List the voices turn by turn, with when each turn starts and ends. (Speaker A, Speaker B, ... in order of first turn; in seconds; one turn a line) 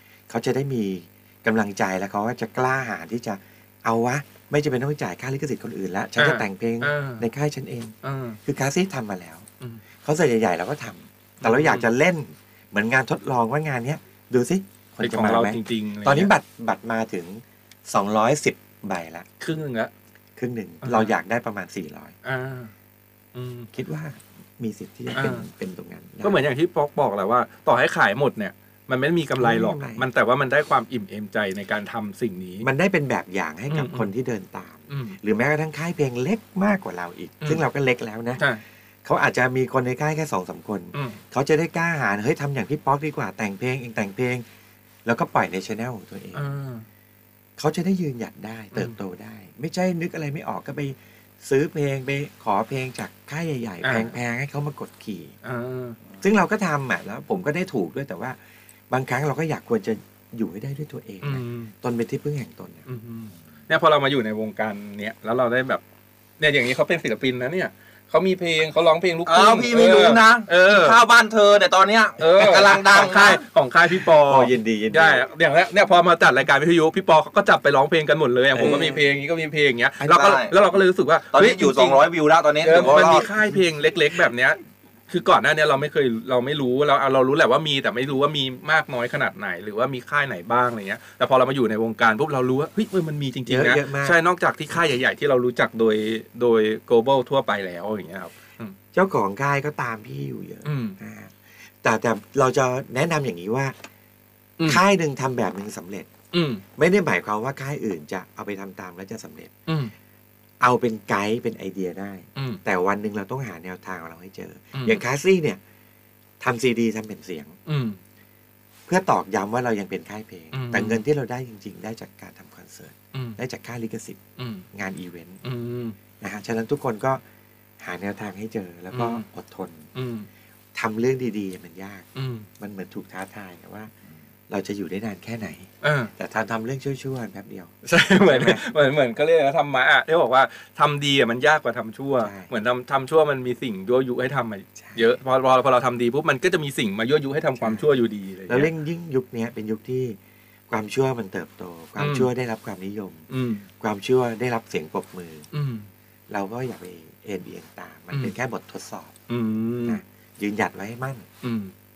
Speaker A: 0.3-7.9
Speaker B: 6.2-7.2
Speaker B: 8.0-8.4
Speaker A: 8.4-9.5
Speaker A: 10.0-19.2
Speaker B: 11.4-11.8
Speaker B: 15.0-16.3
Speaker B: 19.4-19.9
Speaker A: 20.4-22.1
Speaker B: 20.8-21.1
Speaker B: 22.2-22.7
Speaker B: 23.3-23.7
Speaker A: 23.7-26.4
Speaker B: 25.1-25.4
Speaker B: 26.2-32.7
Speaker A: 29.4-30.1
Speaker A: 32.6-38.4
Speaker B: 33.7-34.1
Speaker B: 34.9-35.2
Speaker A: 39.0-44.4
Speaker B: 40.9-41.2
Speaker A: 45.0-46.5
Speaker B: 46.3-46.9
Speaker A: 47.6-55.3
Speaker B: 53.8-54.1
Speaker B: 55.4-56.0
Speaker A: 56.2-58.4
Speaker A: 58.9-62.8
Speaker B: 61.2-61.7
Speaker B: 62.9-65.8
Speaker B: 66.4-71.0
Speaker C: 69.2-73.4
Speaker B: 72.2-82.1
Speaker A: 74.2-75.2
Speaker A: 78.5-79.1
Speaker C: 78.6-78.9
Speaker C: 80.1-80.5
Speaker C: 81.3-83.3
Speaker B: 82.6-98.8
Speaker A: 93.5-94.2
Speaker A: 98.9-103.7
Speaker B: 100.6-101.0
Speaker A: 104.7-106.1
Speaker B: 106.3-106.6
Speaker A: 106.8-109.5
Speaker B: 109.7-109.9
Speaker A: 110.6-115.6
Speaker B: 114.7-115.0
Speaker A: 116.4-117.6
Speaker B: 117.7-118.0
Speaker A: 118.9-124.2
Speaker B: 120.5-121.0
Speaker B: 124.4-124.6
Speaker A: 124.7-125.4
Speaker B: 125.4-126.0
Speaker A: 126.2-127.2
Speaker A: 127.8-129.9
Speaker B: 128.9-129.2
Speaker B: 129.9-130.3
Speaker A: 130.7-132.1
Speaker B: 132.1-132.5
Speaker A: 132.6-133.9
Speaker A: 134.5-138.7
Speaker B: 135.8-136.1
Speaker B: 137.8-148.7
Speaker A: 142.2-142.5
Speaker A: 144.8-145.1
Speaker A: 147.6-147.9
Speaker A: 148.5-150.2
Speaker A: 150.7-153.2
Speaker B: 152.0-152.3
Speaker B: 153.3-153.6
Speaker A: 153.8-155.4
Speaker B: 155.5-155.9
Speaker A: 156.3-159.2
Speaker B: 159.3-160.0
Speaker A: 159.8-161.2
Speaker B: 161.4-161.7